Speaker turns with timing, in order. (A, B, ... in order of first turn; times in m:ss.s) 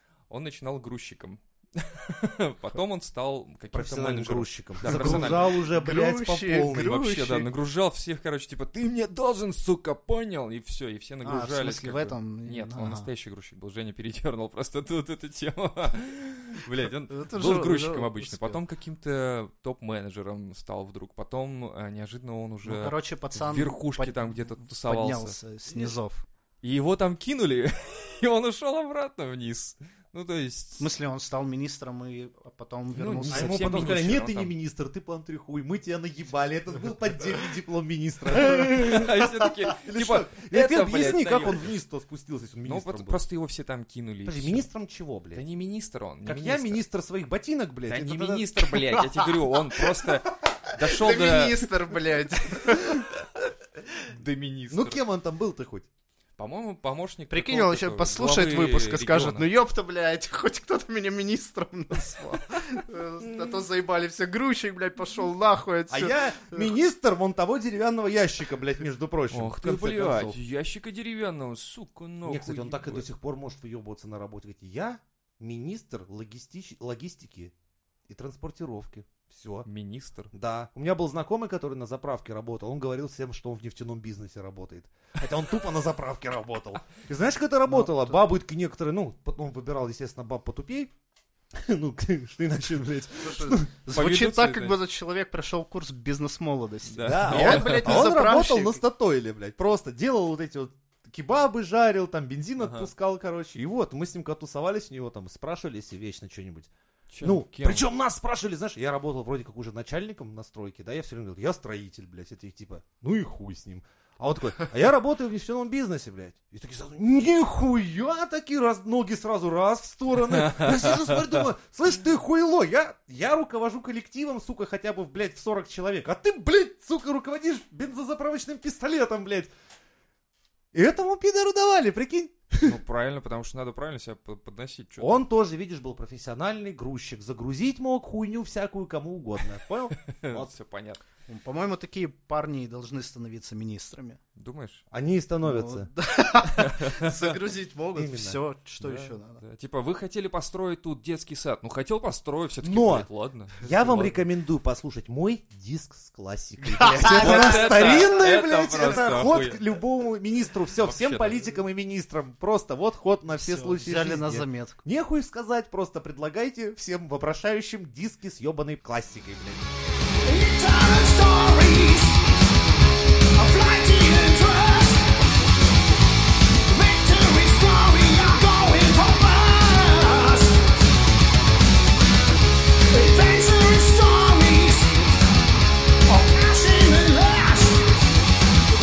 0:00.3-0:05.5 A
0:03.7-0:07.1 B
0:04.8-0:07.5 C
0:06.6-0:25.9 A
0:11.2-0:13.1 C
0:17.1-0:18.6 C
0:22.6-0:26.2 C
0:26.6-0:30.9 A
0:30.8-0:34.0 C
0:33.0-0:34.5 A
0:33.3-0:43.2 B
0:38.3-0:41.7 A
0:42.6-0:44.7 A
0:44.2-0:45.4 B
0:45.3-0:46.8 A
0:46.2-0:48.6 B
0:47.9-0:51.7 A
0:50.7-0:53.1 C
0:54.0-0:55.0 A
0:54.7-0:55.9 B
0:56.4-0:59.5 A
0:57.3-1:06.7 C
1:05.9-1:10.4 B
1:09.3-1:13.1 A
1:12.2-1:17.5 B
1:18.1-1:19.7 B
1:19.7-1:20.3 A
1:20.3-1:30.9 B
1:27.7-1:28.2 C
1:31.6-1:33.7 B
1:33.2-1:38.8 C
1:33.9-1:34.8 A
1:36.9-1:38.1 A
1:37.0-1:46.7 B
1:42.6-1:42.9 A
1:47.1-1:47.9 A
1:47.2-2:09.5 B
2:00.5-2:00.8 A
2:10.7-2:12.8 B
2:12.6-2:15.2 A
2:15.0-2:20.5 B
2:20.0-2:21.0 A
2:21.3-2:24.2 C
2:24.4-2:24.8 A
2:24.9-2:25.9 B
2:25.4-2:29.4 C
2:26.6-2:27.4 A
2:28.0-2:28.4 B
2:28.8-2:34.2 A
2:32.6-2:49.7 B
2:36.6-2:38.1 C
2:37.0-2:39.6 A
2:40.8-2:41.6 A
2:43.4-2:44.8 C
2:50.2-2:52.3 D
2:53.3-2:55.1 D
2:56.7-3:00.7 D
3:02.9-3:05.0 D
3:06.1-3:07.9 D